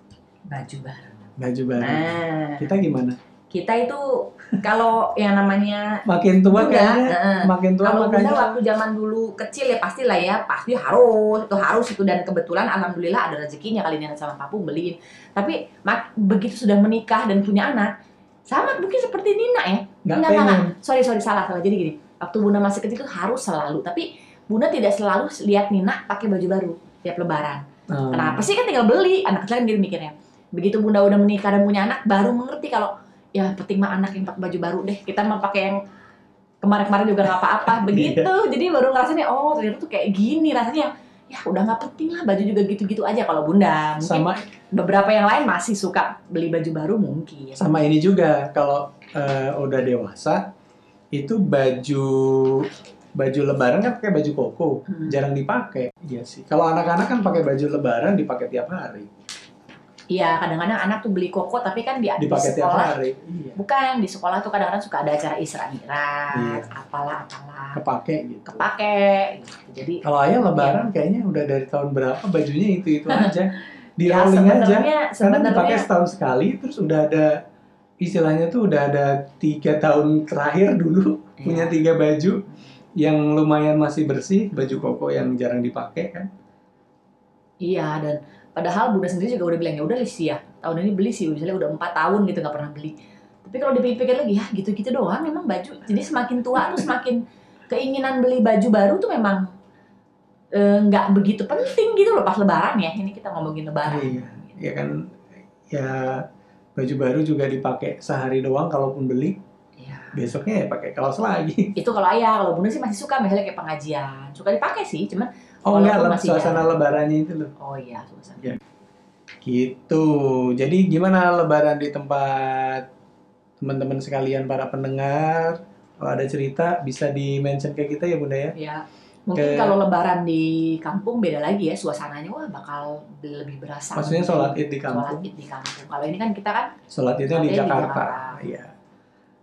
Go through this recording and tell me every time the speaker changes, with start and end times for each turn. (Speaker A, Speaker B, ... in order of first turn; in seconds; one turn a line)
Speaker A: 0.5-2.8
Speaker B: 1.4-3.2
Speaker A: 3.5-17.9
Speaker B: 6.0-8.6
Speaker A: 18.5-35.8
Speaker B: 20.0-20.7
Speaker B: 27.9-28.5
Speaker A: 36.6-47.7
Speaker B: 37.4-38.3
Speaker B: 44.0-44.4
Speaker B: 47.5-50.4
Speaker B: 51.1-52.6
Speaker B: 53.2-59.1
Speaker A: 54.9-55.2
Speaker A: 60.1-62.9
Speaker B: 62.2-63.6
Speaker A: 63.6-67.8
Speaker B: 66.3-66.7
Speaker B: 67.7-68.6
Speaker A: 68.5-70.9
Speaker B: 70.0-77.4
Speaker A: 73.1-73.4
Speaker A: 74.0-75.9
Speaker B: 78.0-82.4
Speaker A: 81.4-81.8
Speaker B: 83.0-86.3
Speaker A: 87.6-99.5
Speaker B: 96.6-96.8
Speaker A: 100.5-104.5
Speaker B: 103.8-105.0
Speaker B: 105.7-106.2
Speaker B: 106.8-109.4
Speaker A: 109.8-110.2
Speaker B: 110.1-111.7
Speaker A: 111.8-116.7
Speaker B: 115.7-117.5
Speaker A: 117.6-118.5
Speaker B: 119.4-122.8
Speaker B: 123.6-128.5
Speaker A: 128.6-136.7
Speaker B: 129.3-129.8
Speaker B: 133.9-135.3
Speaker B: 136.9-138.7
Speaker A: 137.3-138.4